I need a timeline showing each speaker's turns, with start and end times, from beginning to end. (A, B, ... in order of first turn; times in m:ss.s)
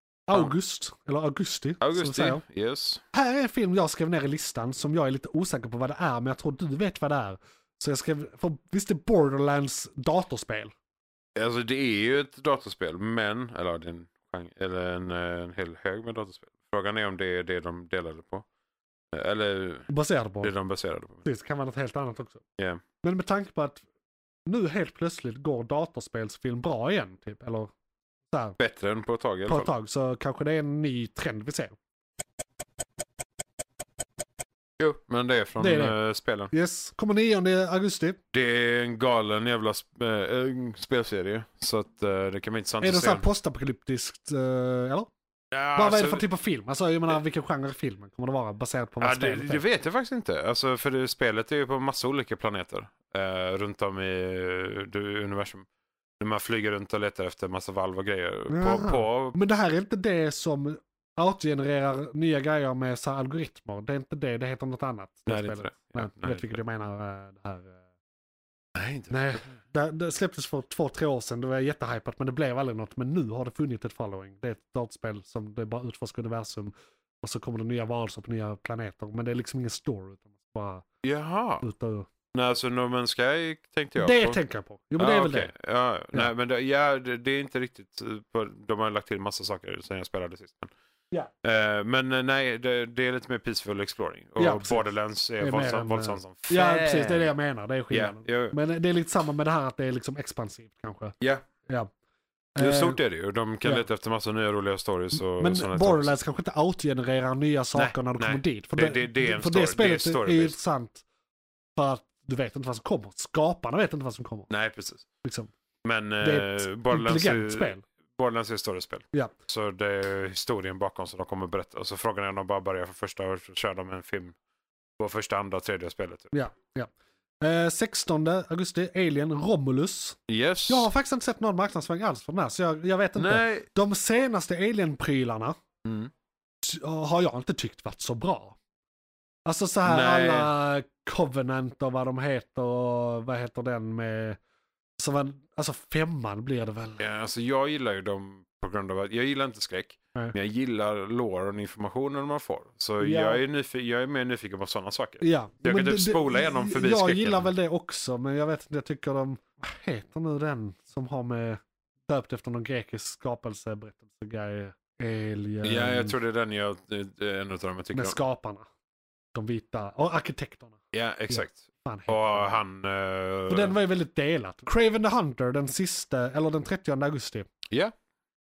0:00.3-0:02.4 A
0:01.8-0:03.0 B
0:03.1-0:10.7 A
0:11.4-0:18.4 B
0:19.1-0:19.9 B
0:19.9-0:20.5 A
0:20.4-0:21.2 B
0:21.2-0:22.4 A
0:23.0-0:23.8 A
0:24.4-0:27.7 A
0:28.3-0:28.6 A
0:28.6-0:29.7 B
0:29.4-0:31.7 A
0:34.8-0:36.5 B
0:35.6-0:36.0 A
0:36.5-0:38.2 A
0:38.3-0:43.2 B
0:42.8-0:45.1 A
0:45.5-0:46.2 B
0:45.7-0:49.6 A
0:49.0-0:55.6 B
0:56.2-0:59.4 B
0:58.5-1:07.8 A
1:05.3-1:06.6 B
1:08.7-1:09.5 B
1:09.1-1:20.9 A
1:21.0-1:21.6 B
1:21.6-1:22.1 A
1:22.3-1:24.4 B
1:24.0-1:25.5 A
1:25.0-1:30.7 B
1:31.4-1:37.3 B
1:34.4-1:34.9 A
1:35.4-1:41.9 A
1:37.9-1:38.6 B
1:42.6-1:43.0 A
1:42.6-1:46.1 B
1:45.2-1:51.0 A
1:47.7-1:50.6 B
1:51.8-1:54.5 A
1:54.5-1:55.0 B
1:55.2-1:55.5 A
1:55.8-2:04.4 B
1:56.2-1:57.8 A
2:05.0-2:06.3 B
2:06.3-2:15.6 A
2:10.3-2:10.9 B
2:13.2-2:13.7 B
2:15.8-2:16.1 B
2:16.6-2:18.6 A
2:19.4-2:24.4 A
2:19.8-2:20.5 B
2:25.0-2:27.0 A
2:27.0-2:37.5 B
2:33.0-2:33.4 A
2:35.2-2:46.2 A
2:45.6-2:48.2 B
2:47.9-2:48.6 A
2:49.3-2:52.5 A
2:50.9-2:53.8 B
2:53.5-2:57.5 A